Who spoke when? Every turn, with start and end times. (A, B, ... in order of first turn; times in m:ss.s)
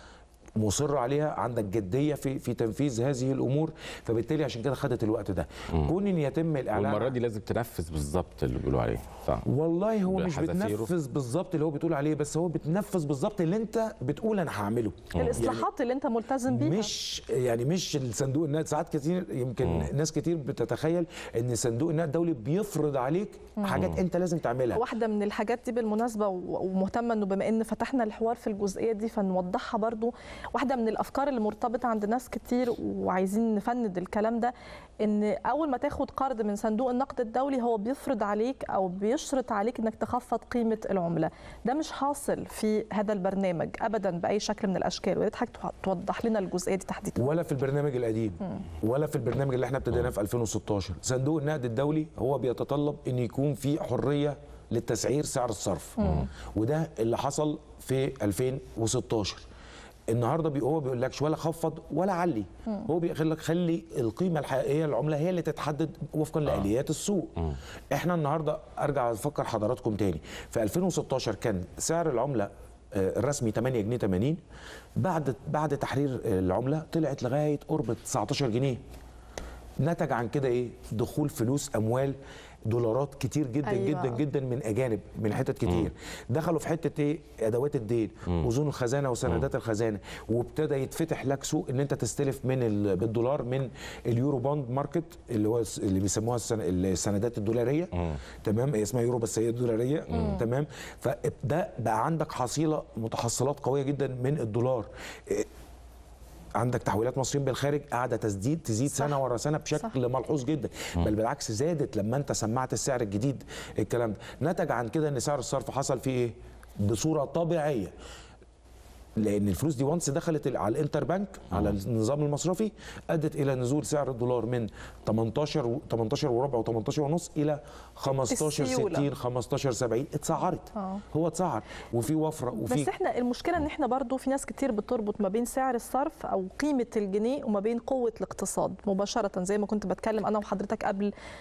0:00.6-0:07.1 A
0:06.7-0:09.4 B
0:09.4-0:15.7 A
0:10.1-0:10.9 B
0:15.2-0:15.4 B
0:15.2-0:16.9 C
0:16.5-0:24.8 A
0:24.7-0:47.2 C
0:47.2-0:59.4 A
0:56.0-0:56.2 C
1:00.1-1:07.3 A
1:07.9-1:14.4 A
1:15.0-1:18.8 A
1:19.8-1:22.2 A
1:22.7-1:37.9 A
1:23.6-1:24.2 C
1:38.4-1:45.5 A
1:40.1-1:40.4 C
1:46.6-1:57.9 A
1:59.2-2:12.9 A
2:08.3-2:09.1 C
2:12.6-2:21.1 C